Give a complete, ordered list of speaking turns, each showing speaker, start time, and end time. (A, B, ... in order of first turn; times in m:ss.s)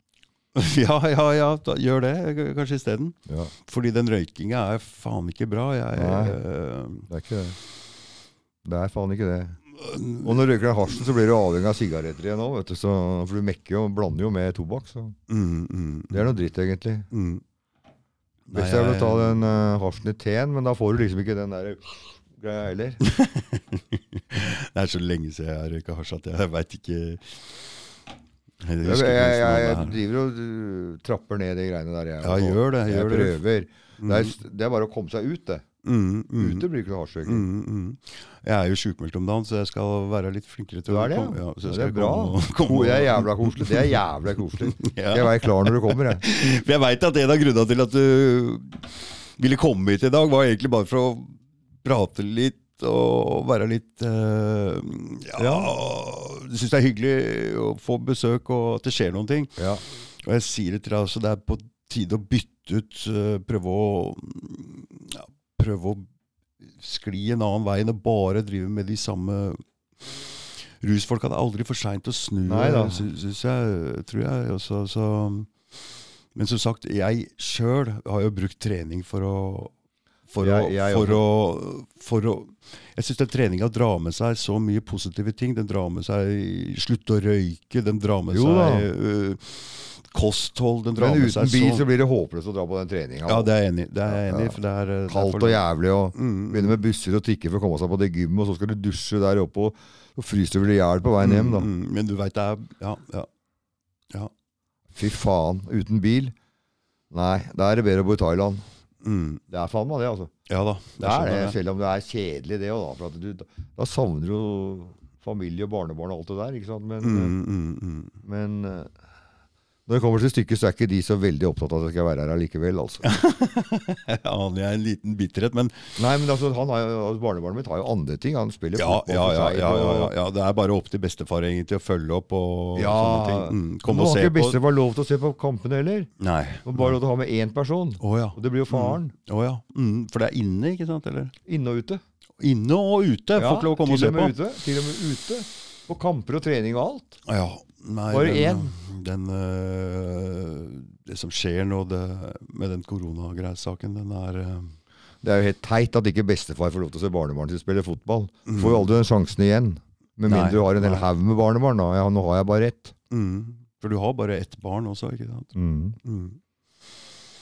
0:00.6-0:07.1 A
0:05.9-0:06.4 B
0:07.1-0:07.6 B
0:08.6-0:09.6 B
0:09.8-0:10.4 A
0:10.2-0:15.2 B
0:15.3-0:16.3 A
0:16.1-0:17.1 B
0:17.1-0:17.4 A
0:18.5-0:19.4 A
0:18.5-0:23.0 B
0:23.0-0:27.5 A
0:28.6-0:30.0 A
0:28.8-0:35.6 B
0:32.2-0:33.4 A
0:34.0-0:34.3 A
0:35.8-0:36.7 A
0:36.4-0:37.5 B
0:37.2-0:44.0 A
0:40.9-0:46.2 B
0:44.7-0:59.6 A
0:55.4-0:55.7 B
1:00.2-1:06.1 A
1:06.6-1:09.6 A
1:10.8-1:15.5 A
1:12.5-1:13.1 B
1:16.4-1:19.7 A
1:20.3-1:31.8 A
1:20.4-1:21.2 B
1:28.3-1:28.9 B
1:31.0-1:33.5 B
1:33.3-1:36.8 A
1:34.1-1:41.7 B
1:41.2-1:43.3 A
1:44.9-1:46.4 B
1:47.1-1:48.7 B
1:49.0-1:49.4 A
1:49.5-1:50.3 B
1:50.5-1:51.6 A
1:51.0-1:57.4 B
1:57.0-1:58.2 A
1:58.2-1:58.9 B
1:59.9-2:03.1 B
2:03.0-2:06.0 A
2:06.0-2:10.1 B
2:08.8-2:14.6 A
2:12.8-2:16.1 B
2:16.2-2:17.0 A
2:16.6-2:19.1 B
2:18.0-2:21.3 A
2:21.5-2:22.0 B
2:22.4-2:24.4 A
2:23.4-2:27.2 B
2:27.3-2:34.8 A
2:28.1-2:28.7 B
2:35.2-2:43.0 B
2:38.5-2:38.8 A
2:40.3-2:41.1 A
2:43.1-2:45.5 A
2:45.6-2:46.0 B
2:46.0-2:46.4 A